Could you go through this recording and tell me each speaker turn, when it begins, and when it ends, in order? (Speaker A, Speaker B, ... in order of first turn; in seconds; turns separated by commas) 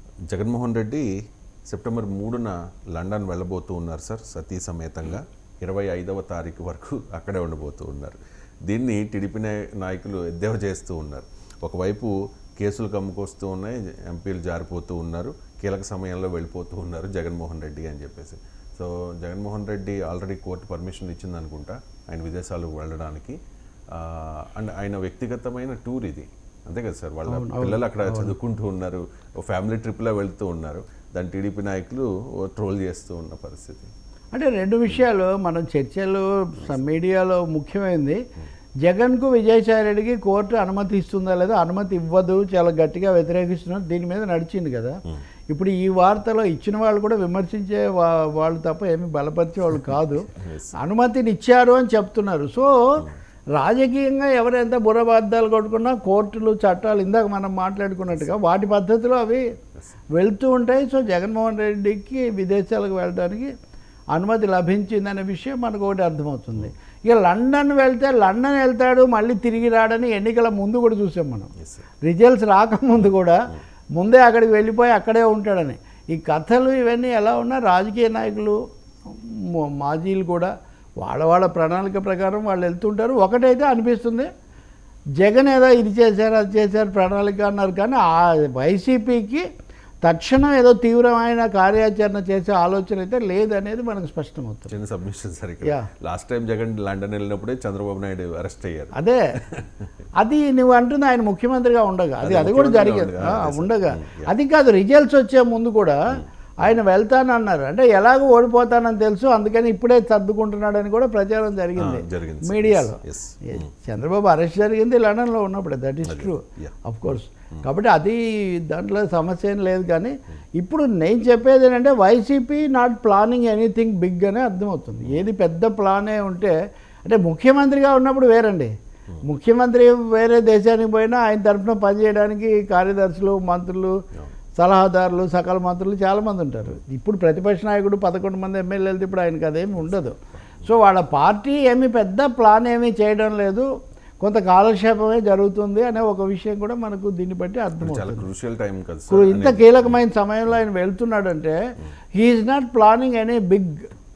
Speaker A: 0.3-1.1, Speaker A: 1.7-23.4, Speaker A: 23.9-33.9, Speaker B: 27.3-28.4, Speaker B: 34.3-38.2, Speaker B: 38.8-59.4, Speaker A: 50.4-50.8, Speaker B: 60.1-63.5, Speaker B: 64.1-71.5, Speaker A: 71.6-71.9, Speaker B: 72.0-78.6, Speaker B: 79.1-84.3, Speaker B: 85.2-89.5, Speaker B: 90.0-94.7, Speaker A: 94.7-99.0, Speaker B: 99.0-99.4, Speaker A: 99.5-99.7, Speaker B: 100.2-106.0, Speaker A: 102.2-104.3, Speaker B: 106.6-126.5, Speaker A: 111.8-113.7, Speaker A: 116.1-116.8, Speaker B: 127.0-128.7, Speaker B: 129.2-133.9, Speaker B: 134.6-143.7, Speaker B: 144.2-148.3, Speaker A: 147.8-150.0, Speaker B: 149.1-151.6, Speaker B: 152.2-153.9